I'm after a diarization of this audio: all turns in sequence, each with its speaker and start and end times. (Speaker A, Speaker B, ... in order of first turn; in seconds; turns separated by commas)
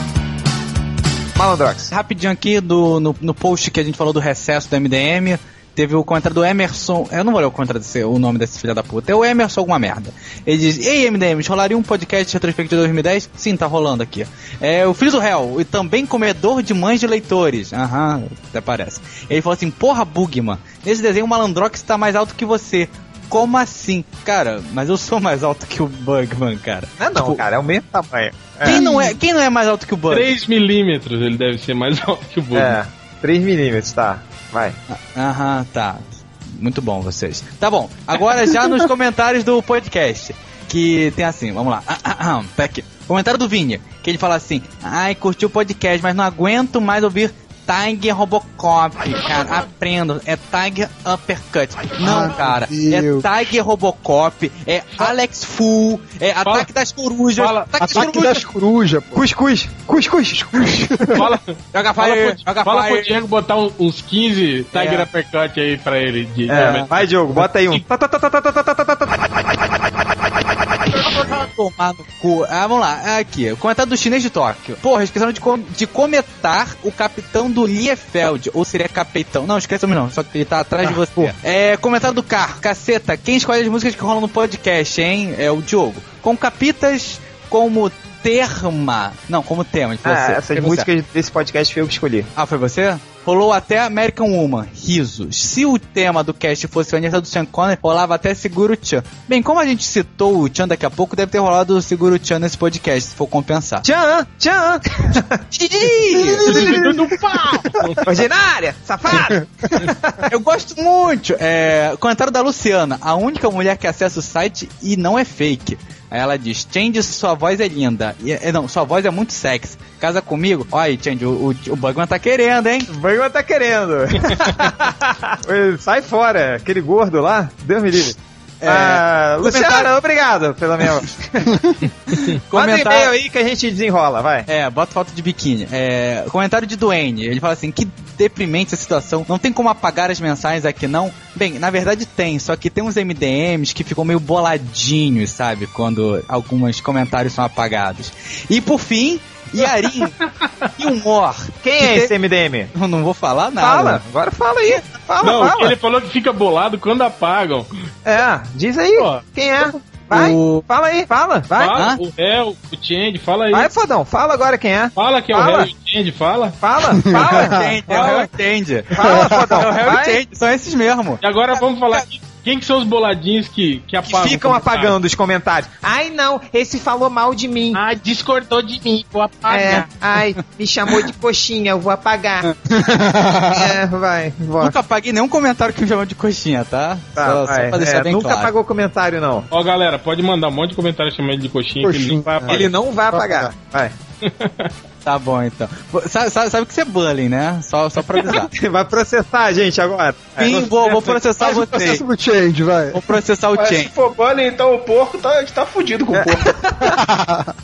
Speaker A: 1.4-1.9, Speaker B: 1.9-27.4, Speaker A: 27.0-28.8, Speaker B: 28.6-30.3, Speaker C: 28.7-29.1, Speaker D: 30.1-32.8, Speaker A: 32.5-34.8, Speaker B: 34.9-58.4, Speaker C: 52.0-53.3, Speaker D: 57.4-58.0, Speaker C: 57.8-59.2, Speaker A: 59.1-60.7, Speaker C: 60.3-61.3, Speaker D: 61.1-67.8, Speaker B: 61.7-63.1, Speaker B: 64.7-65.1, Speaker A: 66.5-69.2, Speaker B: 66.6-66.8, Speaker B: 71.0-90.9, Speaker C: 81.1-81.3, Speaker A: 90.0-92.3, Speaker B: 92.3-103.9, Speaker A: 103.8-105.4, Speaker B: 105.5-106.5, Speaker C: 106.1-108.0, Speaker D: 106.5-108.0, Speaker A: 106.5-106.9, Speaker A: 108.0-110.2, Speaker C: 109.3-109.7, Speaker B: 110.3-122.9, Speaker A: 122.9-131.7, Speaker B: 128.6-129.9, Speaker B: 132.1-133.1, Speaker A: 132.5-134.5, Speaker B: 134.5-150.2, Speaker B: 150.8-152.1, Speaker A: 151.6-152.7, Speaker B: 152.7-154.0, Speaker A: 153.6-155.7, Speaker D: 155.2-157.7, Speaker A: 158.1-161.8, Speaker D: 158.9-159.2, Speaker B: 160.1-160.7, Speaker D: 161.6-163.7, Speaker B: 161.7-162.0, Speaker A: 163.5-165.7, Speaker D: 165.0-166.6, Speaker A: 166.6-168.3, Speaker C: 167.1-167.8, Speaker B: 167.2-172.0, Speaker D: 167.9-168.3, Speaker A: 168.9-170.2, Speaker C: 169.0-169.7, Speaker D: 171.2-175.0, Speaker A: 174.1-177.8, Speaker D: 177.7-179.9, Speaker A: 179.5-182.5, Speaker C: 182.7-183.7, Speaker A: 183.5-184.8, Speaker B: 184.6-188.5, Speaker A: 187.2-189.5, Speaker D: 189.5-192.7, Speaker C: 191.8-193.5, Speaker A: 192.5-193.9, Speaker D: 194.2-194.7, Speaker B: 195.1-198.5, Speaker A: 198.3-200.7, Speaker B: 200.4-202.1, Speaker D: 200.5-201.0, Speaker C: 201.4-203.0, Speaker B: 202.9-203.9, Speaker E: 203.6-206.5, Speaker A: 206.1-207.0, Speaker C: 206.9-207.5